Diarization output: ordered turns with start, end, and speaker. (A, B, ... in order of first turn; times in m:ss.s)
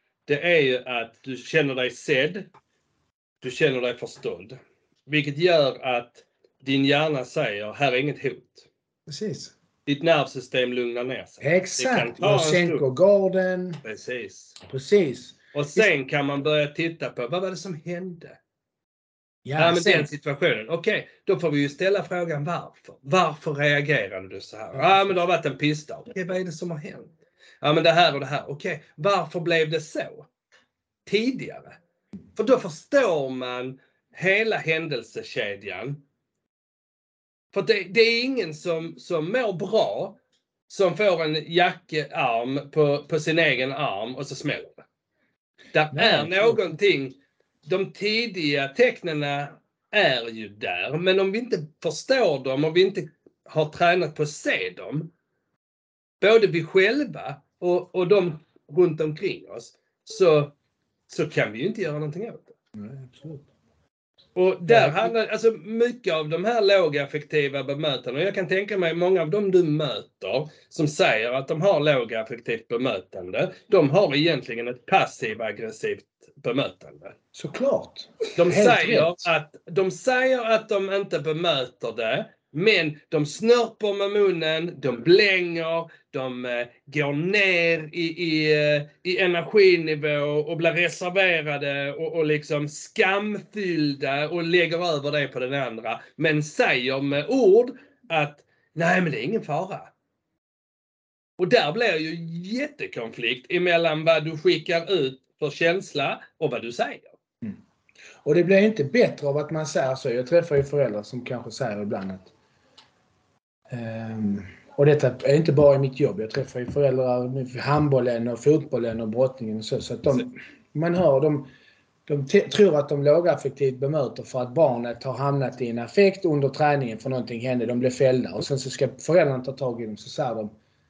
0:00.3-0:02.5 A
0:03.4-0:04.6 A
0:05.1-0:08.7 A
0:09.1-0:09.5 B
0:09.9-0:12.8 A
0:11.4-0:13.8 B
0:13.8-0:14.6 A
0:14.6-0:15.9 B
0:15.5-0:18.4 A
0:19.4-0:20.1 B
0:19.6-0:30.3 A
0:31.1-0:31.8 A
0:32.4-0:36.0 A
0:37.5-0:40.2 A
0:40.7-0:44.8 A
0:45.7-0:55.1 A
0:45.9-0:46.7 B
0:56.2-1:00.6 A
1:01.1-1:02.5 A
1:02.8-1:03.5 B
1:04.4-1:17.2 A
1:04.7-1:05.1 B
1:17.3-1:19.3 B
1:18.4-1:39.9 A
1:41.4-1:47.2 A
1:48.2-1:52.3 B
1:53.7-2:01.5 B
2:02.1-2:10.5 B